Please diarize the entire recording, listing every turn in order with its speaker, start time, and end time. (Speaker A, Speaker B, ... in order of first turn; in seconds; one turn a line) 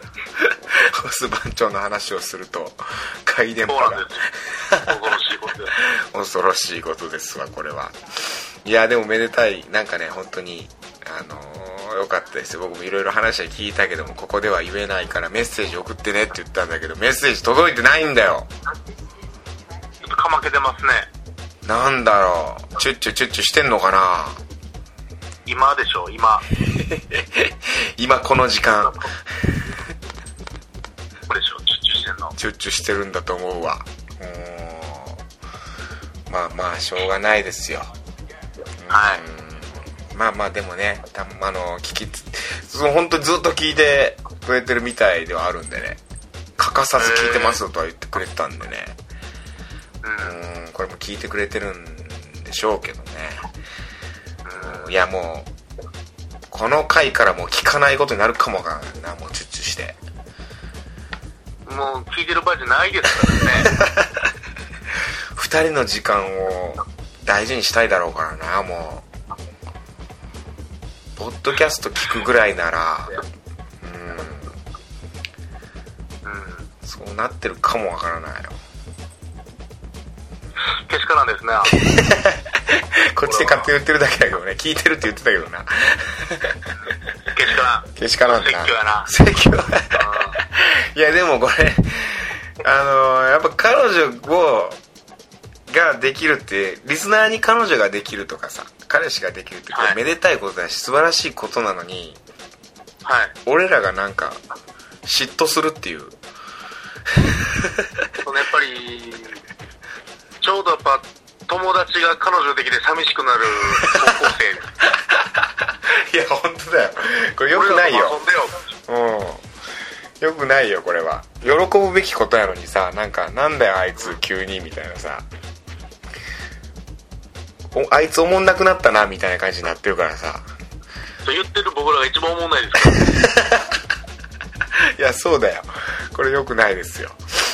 Speaker A: 0.4-4.9
Speaker B: 3.7-4.2
Speaker B: 4.8-5.8
Speaker A: 5.8-18.5
Speaker B: 20.0-21.1
Speaker A: 21.7-24.4
Speaker B: 25.5-26.4
Speaker A: 26.6-29.1
Speaker B: 31.3-32.4
Speaker A: 32.4-35.2
Speaker A: 36.3-37.9
Speaker A: 38.8-46.0
Speaker B: 38.9-39.2
Speaker A: 46.6-49.0
Speaker B: 47.0-47.6
Speaker B: 50.0-50.4
Speaker A: 50.2-53.5
Speaker B: 54.5-54.9
Speaker A: 54.6-55.5
Speaker A: 56.5-60.0
Speaker B: 61.7-63.7
Speaker A: 63.6-64.2
Speaker A: 65.3-69.1
Speaker A: 71.2-73.2
Speaker A: 73.8-74.5
Speaker B: 76.2-76.7
Speaker A: 76.8-78.6
Speaker B: 80.8-81.8
Speaker A: 81.7-86.6
Speaker B: 83.2-83.7
Speaker B: 87.3-89.1
Speaker A: 87.9-94.8
Speaker B: 90.0-90.4
Speaker A: 95.7-102.2
Speaker B: 99.7-100.0
Speaker B: 103.0-103.3
Speaker A: 103.5-104.4
Speaker A: 105.0-106.2
Speaker A: 107.2-107.9
Speaker B: 108.2-109.4
Speaker B: 110.4-114.7
Speaker A: 113.8-114.1
Speaker A: 115.1-118.2
Speaker B: 117.5-118.6
Speaker A: 118.9-119.4
Speaker A: 120.2-125.3
Speaker A: 127.7-130.5
Speaker B: 131.2-133.1
Speaker A: 132.9-133.7
Speaker A: 134.9-137.2